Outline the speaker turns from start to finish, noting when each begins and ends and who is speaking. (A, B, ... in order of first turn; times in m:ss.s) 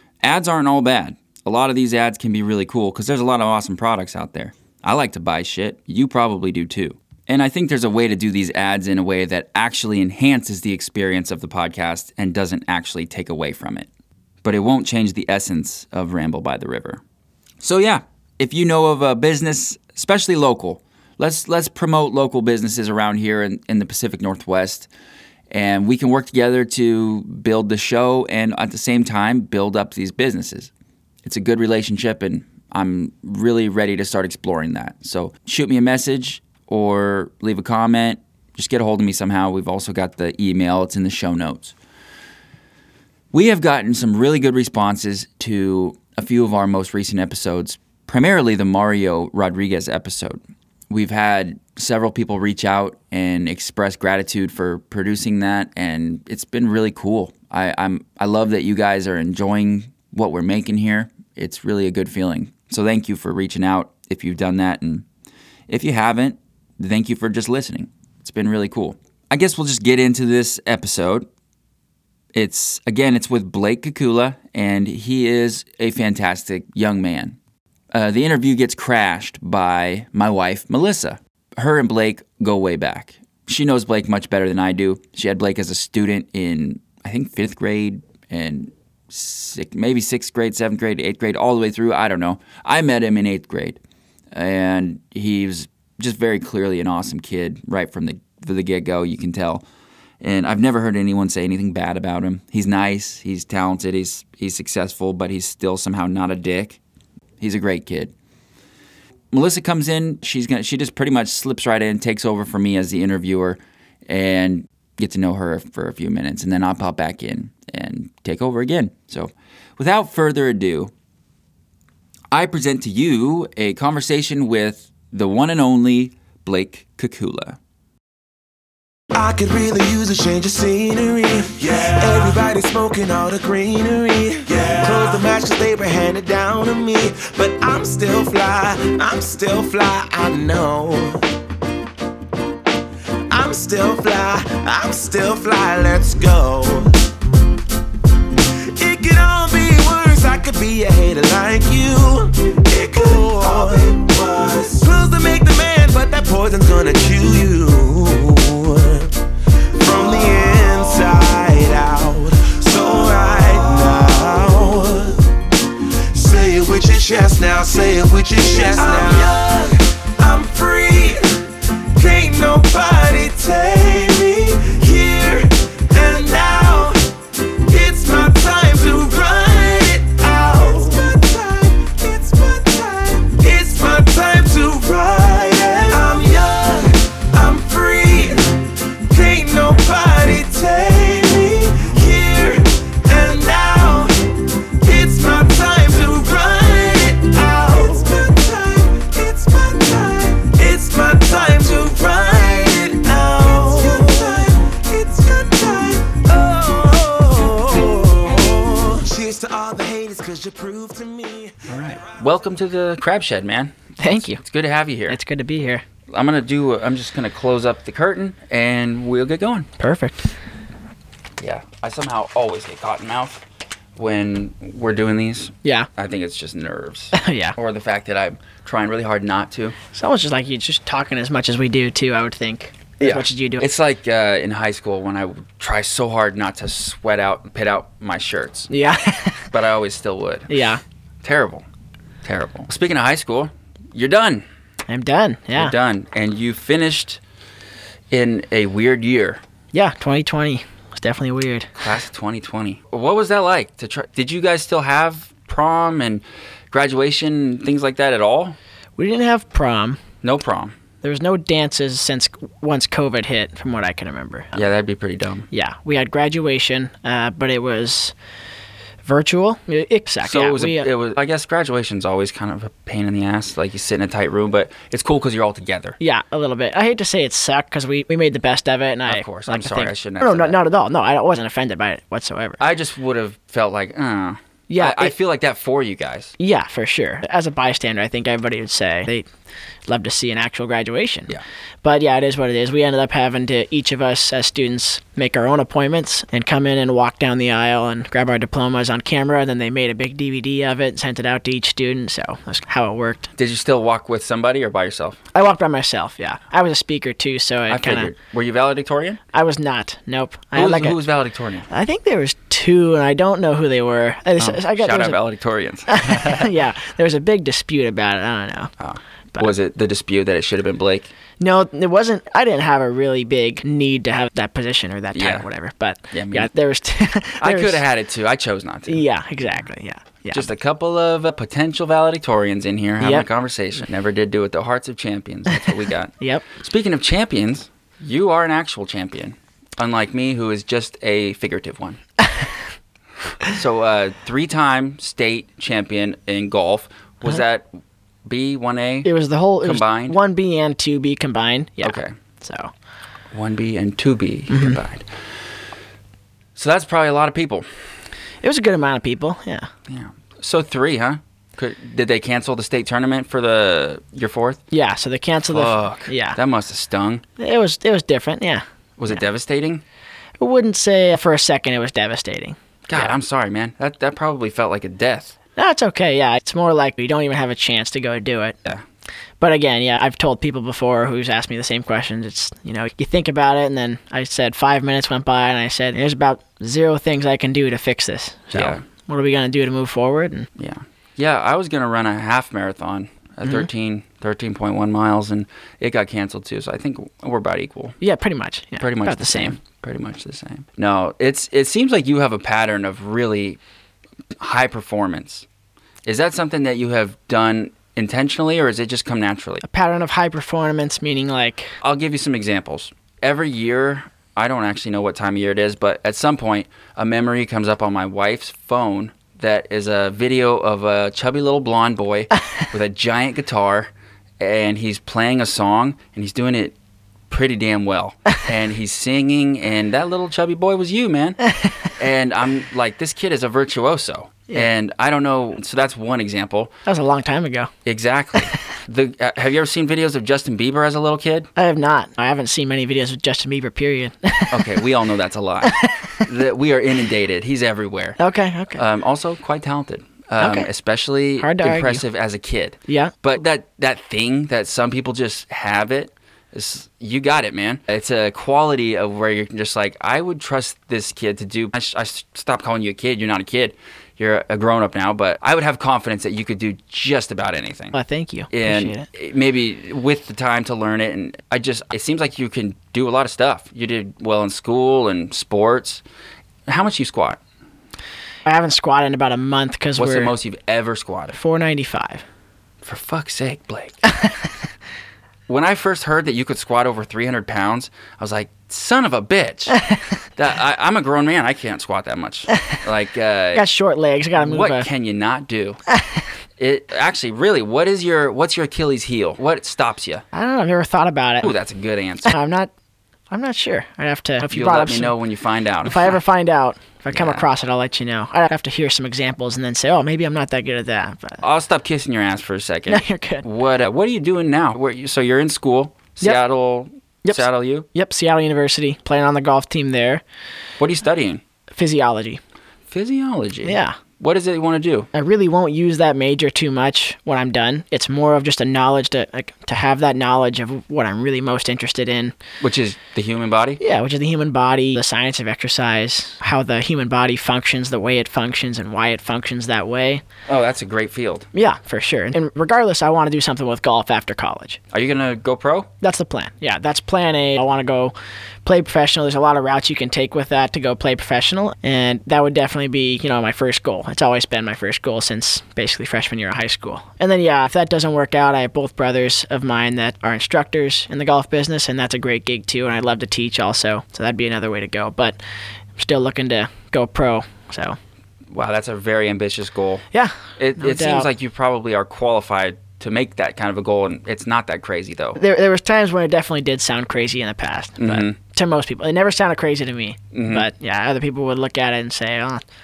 0:00.2-0:13.9 A
0:14.4-0:17.0 A
0:17.6-0:24.9 A
0:25.5-0:30.7 A
0:31.2-0:41.7 A
0:43.3-1:05.0 A
1:05.7-1:11.3 A
1:12.3-1:17.4 A
1:17.9-1:33.8 A
1:34.3-1:39.6 A
1:40.2-1:46.8 A
1:47.4-1:48.1 A
1:49.3-2:00.9 A
2:02.3-2:07.6 A
2:09.1-2:21.2 B
2:23.3-2:27.0 B
2:28.7-2:39.2 B
2:39.7-2:45.3 B
2:46.1-3:31.7 B
3:31.7-3:35.2 A
3:34.0-3:34.4 C
3:35.1-3:35.8 C
3:36.1-3:39.7 A
3:39.8-3:40.3 C
3:41.4-3:43.4 A
3:44.0-3:49.8 A
3:47.1-3:47.6 C
3:49.9-3:53.7 C
3:53.0-3:58.7 A
3:58.7-3:59.5 C
3:59.5-4:00.6 A
4:00.5-4:00.8 C
4:01.2-4:01.6 A
4:02.2-4:04.4 A
4:04.9-4:05.7 C
4:05.5-4:07.2 A
4:08.1-4:09.4 A
4:09.7-4:11.7 C
4:11.8-4:18.6 A
4:19.0-4:20.0 C
4:20.2-4:20.8 A
4:21.0-4:24.6 C
4:24.5-4:25.5 A
4:25.5-4:28.1 C
4:29.0-4:30.9 C
4:30.2-4:36.0 A
4:36.0-4:42.6 C
4:39.1-4:40.6 A
4:42.6-4:46.4 A
4:44.7-4:45.1 C
4:46.4-4:49.2 C
4:49.9-4:51.3 C
4:51.8-5:03.3 C
5:03.4-5:05.2 A
5:05.3-5:08.1 C
5:07.7-5:09.2 A
5:09.3-5:11.0 C
5:10.5-5:11.7 A
5:11.7-5:15.2 C
5:14.4-5:16.5 A
5:15.9-5:18.7 C
5:18.8-5:21.1 A
5:21.4-5:27.8 C
5:25.1-5:25.5 A
5:26.1-5:26.5 A
5:27.4-5:29.0 A
5:28.9-5:30.5 C
5:30.3-5:42.0 A
5:33.0-5:33.3 C
5:36.2-5:36.4 C
5:43.4-5:47.7 A
5:48.2-5:49.1 A
5:49.0-5:52.7 C
5:49.6-5:50.2 A
5:51.8-5:52.1 A
5:53.3-5:55.1 A
5:54.5-5:54.8 C
5:56.6-5:57.7 A
5:58.4-5:59.7 C
5:59.9-6:04.6 A
6:04.7-6:06.4 C
6:05.5-6:07.2 A
6:07.4-6:08.6 C
6:09.0-6:09.8 A
6:10.4-6:13.1 C
6:12.9-6:15.4 A
6:15.6-6:18.6 C
6:19.4-6:30.5 C
6:28.5-6:28.8 A
6:30.6-6:38.0 A
6:38.0-6:39.6 C
6:38.8-6:43.6 A
6:44.4-6:45.5 A
6:46.0-6:49.6 A
6:49.6-6:51.7 C
6:51.8-7:06.8 A
7:07.3-7:11.4 A
7:12.0-7:16.8 A
7:16.8-7:17.7 C
7:17.8-7:21.5 A
7:21.6-7:24.7 C
7:24.5-7:28.2 A
7:25.6-7:26.2 C
7:28.2-7:28.8 C
7:28.8-7:48.0 A
7:30.4-7:30.7 C
7:31.4-7:32.0 C
7:32.9-7:33.1 C
7:47.9-7:49.1 C
7:48.5-7:56.0 A
7:56.7-7:57.4 A
7:58.4-8:00.3 C
8:00.0-8:01.4 A
8:01.4-8:02.2 C
8:02.8-8:04.0 A
8:05.5-8:09.8 A
8:10.4-8:13.6 A
8:13.5-8:14.9 C
8:14.4-8:15.8 A
8:15.9-8:16.2 C
8:16.6-8:20.2 A
8:20.3-8:21.5 C
8:21.4-8:22.3 A
8:22.3-8:22.7 C
8:23.3-8:25.1 C
8:24.5-8:26.2 A
8:25.8-8:31.4 C
8:27.1-8:27.4 A
8:31.4-8:37.9 A
8:32.9-8:33.4 C
8:37.2-8:40.2 C
8:40.8-8:41.4 A
8:41.7-8:42.4 C
8:42.9-8:45.1 A
8:43.6-8:44.0 C
8:45.1-8:52.4 C
8:52.6-8:53.8 A
8:53.8-9:00.2 C
9:00.5-9:01.5 A
9:01.5-9:04.8 C
9:04.9-9:05.9 A
9:06.0-9:08.1 C
9:08.6-9:25.4 C
9:26.0-9:28.0 C
9:28.5-9:30.0 A
9:30.1-9:31.3 C
9:30.6-9:35.4 A
9:35.4-9:42.6 C
9:38.0-9:38.4 A
9:40.3-9:40.7 A